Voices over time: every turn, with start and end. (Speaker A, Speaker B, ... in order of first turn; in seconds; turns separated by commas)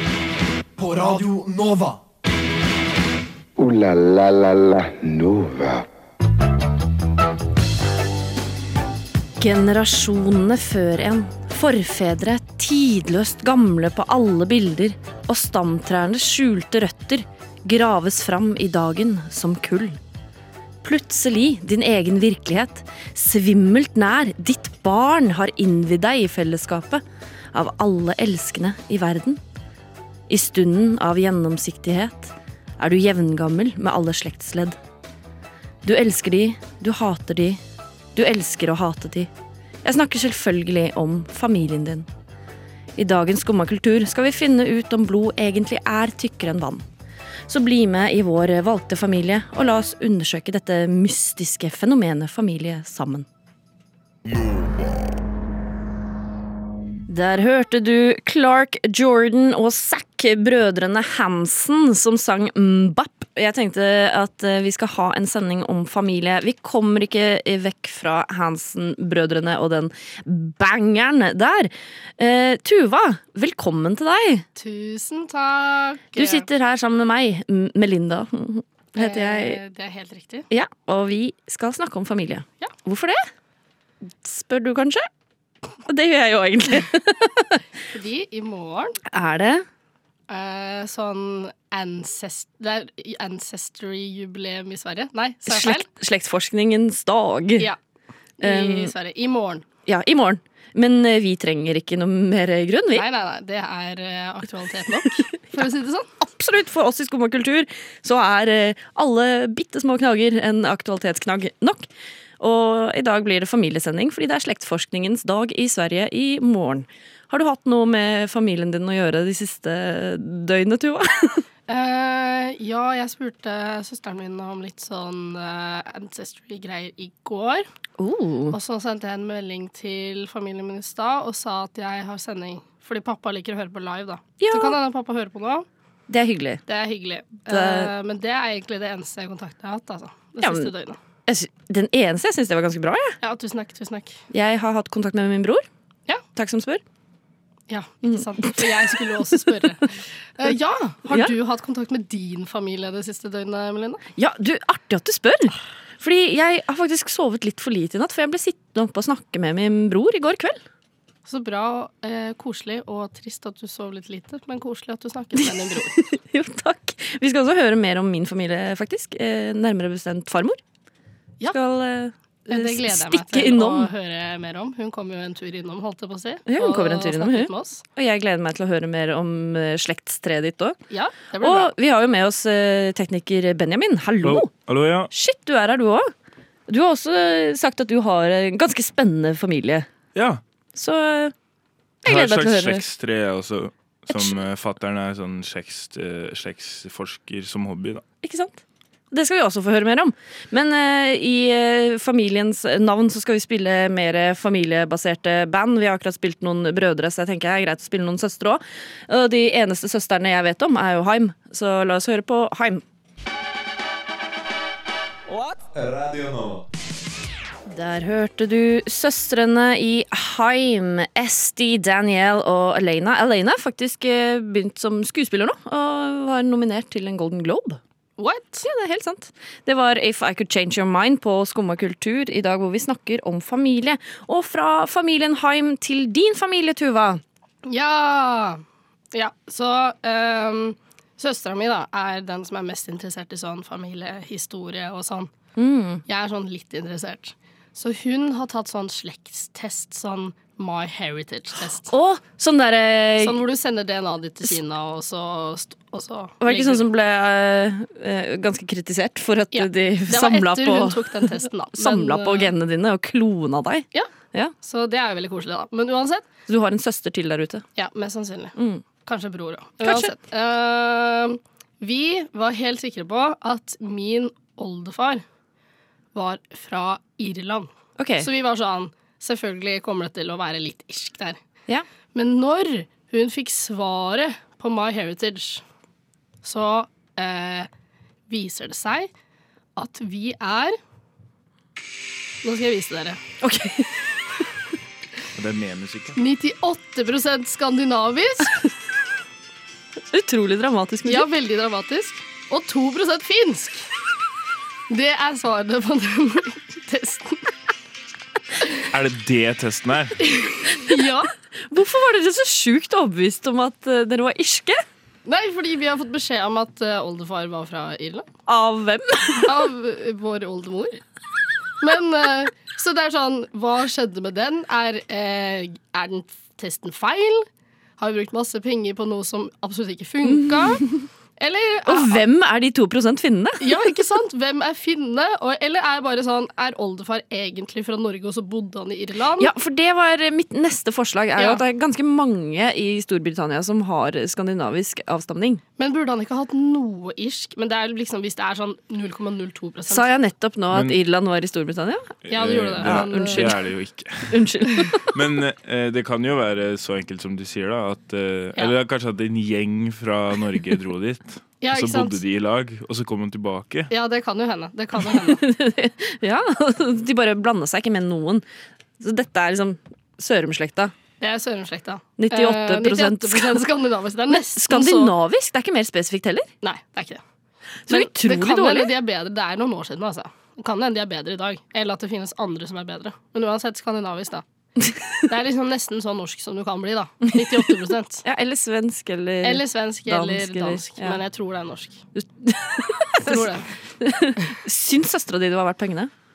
Speaker A: 0.8-2.0, Speaker B: 3.6-5.9, Speaker C: 9.4-20.0, Speaker C: 20.8-27.0, Speaker C: 27.5-29.4, Speaker C: 30.3-34.8, Speaker C: 35.8-37.6, Speaker C: 38.2-39.3, Speaker C: 39.8-42.1, Speaker C: 43.0-46.8, Speaker C: 47.5-53.3, Speaker C: 57.1-74.5, Speaker D: 74.5-76.5, Speaker C: 76.2-79.6, Speaker D: 79.0-80.5, Speaker C: 80.5-83.2, Speaker C: 84.2-85.1, Speaker C: 85.9-87.6, Speaker D: 87.9-89.0, Speaker C: 89.1-89.6, Speaker D: 90.3-95.9, Speaker C: 95.5-97.7, Speaker D: 98.4-99.7, Speaker C: 98.4-98.9, Speaker C: 99.9-103.0, Speaker D: 102.9-106.1, Speaker C: 106.2-111.9, Speaker C: 112.4-121.4, Speaker D: 121.7-127.7, Speaker C: 128.0-128.6, Speaker D: 128.5-135.7, Speaker C: 134.4-134.8, Speaker C: 136.1-136.6, Speaker D: 136.7-141.0, Speaker C: 137.5-137.9, Speaker C: 140.4-140.7, Speaker C: 141.3-143.2, Speaker D: 143.2-144.2, Speaker C: 144.3-145.6, Speaker C: 146.3-146.8, Speaker D: 147.7-154.0, Speaker C: 148.0-149.1, Speaker C: 151.1-151.3, Speaker C: 154.2-160.6, Speaker D: 161.3-166.0, Speaker C: 165.4-170.6, Speaker C: 171.5-173.9, Speaker D: 172.5-177.8, Speaker C: 176.5-180.8, Speaker D: 180.9-181.7, Speaker C: 181.4-184.5, Speaker E: 184.2-185.1, Speaker C: 185.1-186.1, Speaker C: 186.7-189.9, Speaker E: 190.2-190.4, Speaker C: 190.8-191.3, Speaker C: 192.0-192.8, Speaker E: 192.1-198.0, Speaker C: 194.1-194.4, Speaker C: 198.2-212.8, Speaker A: 215.8-216.5, Speaker C: 217.7-227.8, Speaker D: 228.2-228.6, Speaker C: 228.6-237.2, Speaker D: 237.7-238.6, Speaker D: 239.1-245.3, Speaker C: 245.6-246.0, Speaker D: 246.1-251.9, Speaker C: 251.9-253.4, Speaker D: 253.2-256.8, Speaker C: 256.4-264.5, Speaker D: 259.5-262.5, Speaker D: 264.6-266.3, Speaker C: 266.5-267.6, Speaker D: 267.8-268.5, Speaker C: 268.6-268.8, Speaker D: 269.1-275.2, Speaker C: 269.8-270.1, Speaker D: 276.1-281.4, Speaker C: 278.0-278.3, Speaker D: 282.1-285.6, Speaker D: 286.4-287.7, Speaker D: 288.3-289.1, Speaker D: 289.8-290.8, Speaker D: 292.4-293.2, Speaker C: 293.4-294.1, Speaker E: 295.3-296.2, Speaker D: 296.2-298.6, Speaker C: 300.1-301.3, Speaker D: 301.1-303.9, Speaker D: 304.9-307.5, Speaker E: 308.9-310.2, Speaker D: 310.2-311.3, Speaker C: 311.7-314.8, Speaker D: 315.3-318.3, Speaker C: 318.5-319.5, Speaker D: 319.4-321.0, Speaker D: 321.8-327.5, Speaker D: 328.0-330.9, Speaker C: 330.2-331.0, Speaker D: 331.4-332.2, Speaker C: 331.9-333.8, Speaker D: 333.6-339.5, Speaker C: 339.4-345.6, Speaker D: 341.4-341.6, Speaker D: 345.8-350.1, Speaker C: 349.9-352.1, Speaker E: 350.7-351.0, Speaker D: 352.3-353.5, Speaker E: 352.3-354.4, Speaker C: 352.8-353.6, Speaker C: 354.3-355.1, Speaker E: 355.1-363.9, Speaker D: 361.6-362.2, Speaker D: 363.9-365.4, Speaker C: 365.3-368.4, Speaker C: 369.0-370.9, Speaker D: 371.2-375.1, Speaker C: 372.2-373.7, Speaker C: 374.3-376.5, Speaker D: 376.6-377.2, Speaker C: 377.9-378.9, Speaker D: 377.9-384.4, Speaker D: 385.3-388.2, Speaker C: 388.2-391.2, Speaker D: 389.4-392.0, Speaker C: 392.1-393.5, Speaker D: 393.2-393.7, Speaker C: 394.0-396.1